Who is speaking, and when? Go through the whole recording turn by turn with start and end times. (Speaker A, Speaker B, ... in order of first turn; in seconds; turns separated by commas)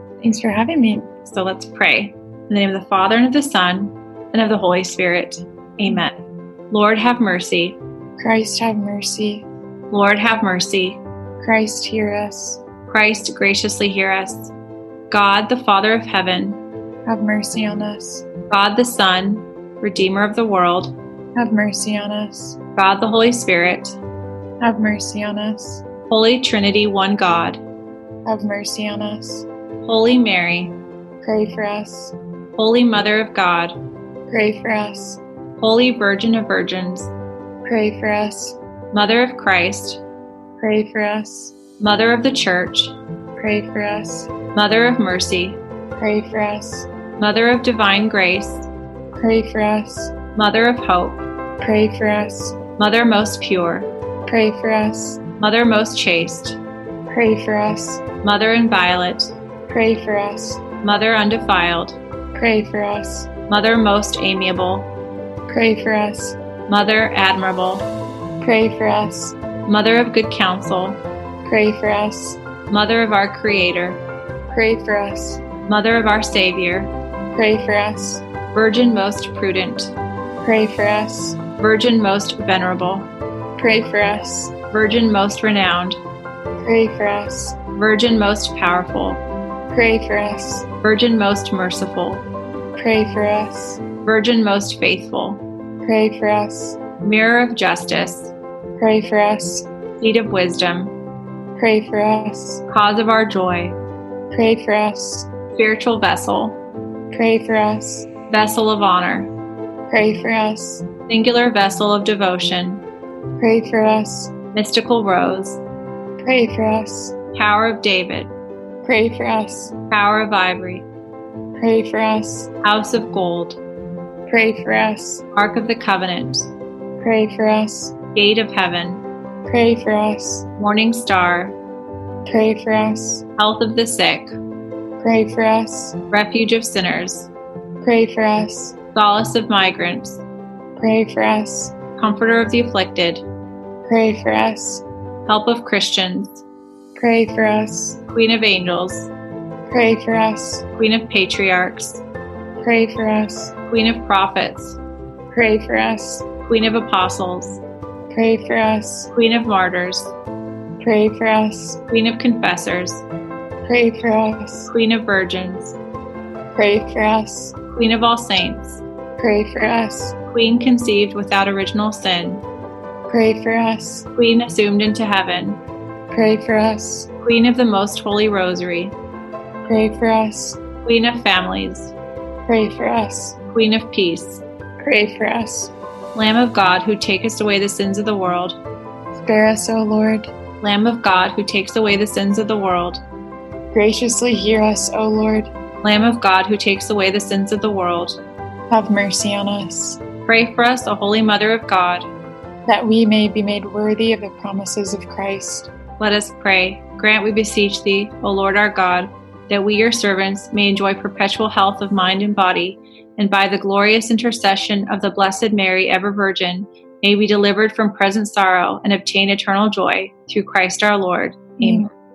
Speaker A: 0.2-1.1, Speaker B: 1.2-6.2, Speaker B: 6.7-7.8, Speaker A: 8.2-9.5, Speaker B: 9.9-11.0, Speaker A: 11.4-12.6, Speaker B: 12.9-14.5, Speaker B: 15.1-16.6, Speaker A: 17.1-18.2, Speaker B: 18.5-20.9, Speaker A: 21.4-22.6, Speaker B: 22.8-24.0, Speaker A: 24.6-25.8, Speaker B: 26.1-27.6, Speaker A: 28.2-29.5, Speaker B: 29.8-30.7, Speaker A: 31.2-32.1, Speaker B: 32.5-33.8, Speaker A: 34.3-35.2, Speaker B: 35.6-37.1, Speaker A: 37.6-38.6, Speaker B: 38.9-40.0, Speaker A: 40.6-41.5, Speaker B: 41.8-42.9, Speaker A: 43.4-44.3, Speaker B: 44.5-45.6, Speaker A: 46.0-46.9, Speaker B: 47.2-48.7, Speaker A: 49.1-50.1, Speaker B: 50.3-51.2, Speaker A: 51.6-52.6, Speaker B: 52.8-53.9, Speaker A: 54.3-55.2, Speaker B: 55.4-56.6, Speaker A: 57.1-58.0, Speaker B: 58.2-59.3, Speaker A: 59.7-60.6, Speaker B: 60.8-62.0, Speaker A: 62.3-63.3, Speaker B: 63.5-64.9, Speaker A: 65.5-66.4, Speaker B: 66.7-67.9, Speaker A: 68.4-69.3, Speaker B: 69.7-71.0, Speaker A: 71.4-72.4, Speaker B: 72.7-74.0, Speaker A: 74.5-75.4, Speaker B: 75.7-76.9, Speaker A: 77.3-78.2, Speaker B: 78.5-79.9, Speaker A: 80.4-81.4, Speaker B: 81.6-83.1, Speaker A: 83.6-84.5, Speaker B: 84.7-86.0, Speaker A: 86.6-87.6, Speaker B: 87.7-89.2, Speaker A: 89.7-90.7, Speaker B: 90.8-92.2, Speaker A: 92.8-93.8, Speaker B: 94.0-95.4, Speaker A: 95.8-96.8, Speaker B: 97.0-98.3, Speaker A: 98.8-99.7, Speaker B: 100.0-100.9, Speaker A: 101.6-102.6, Speaker B: 102.7-103.8, Speaker A: 104.3-105.3, Speaker B: 105.5-106.6, Speaker A: 107.1-108.1, Speaker B: 108.3-109.3, Speaker A: 109.9-110.9, Speaker B: 111.1-112.8, Speaker A: 113.4-114.3, Speaker B: 114.5-115.6, Speaker A: 116.2-117.2, Speaker B: 117.3-118.3, Speaker A: 118.8-119.7, Speaker B: 119.9-120.8, Speaker A: 121.6-122.5, Speaker B: 122.6-123.6, Speaker A: 124.3-125.2, Speaker B: 125.3-126.5, Speaker A: 127.0-127.9, Speaker B: 128.1-129.0, Speaker A: 129.4-130.5, Speaker B: 130.6-131.6, Speaker A: 132.2-133.2, Speaker B: 133.4-134.3, Speaker A: 135.0-135.9, Speaker B: 136.1-137.3, Speaker A: 137.8-138.8, Speaker B: 138.9-140.2, Speaker A: 140.8-141.7, Speaker B: 142.0-143.2, Speaker A: 143.8-144.8, Speaker B: 145.2-146.4, Speaker A: 146.9-148.0, Speaker B: 148.1-149.1, Speaker A: 149.7-150.6, Speaker B: 150.7-152.0, Speaker A: 152.6-153.5, Speaker B: 153.7-154.8, Speaker A: 155.3-156.2, Speaker B: 156.4-157.6, Speaker A: 158.1-159.1, Speaker B: 159.1-160.1, Speaker A: 160.8-161.8, Speaker B: 161.9-163.0, Speaker A: 163.6-164.7, Speaker B: 164.7-165.8, Speaker A: 166.5-167.6, Speaker B: 167.7-168.8, Speaker A: 169.2-170.2, Speaker B: 170.2-172.4, Speaker A: 173.1-174.1, Speaker B: 174.1-175.6, Speaker A: 176.1-177.1, Speaker B: 177.2-178.9, Speaker A: 179.6-180.6, Speaker B: 180.8-181.9, Speaker A: 182.4-183.4, Speaker B: 183.5-184.4, Speaker A: 184.8-185.7, Speaker B: 186.1-188.6, Speaker A: 189.1-190.3, Speaker B: 190.6-193.0, Speaker A: 193.7-195.5, Speaker B: 195.8-198.2, Speaker A: 198.7-200.0, Speaker B: 200.2-202.1, Speaker A: 202.7-205.7, Speaker B: 206.0-221.9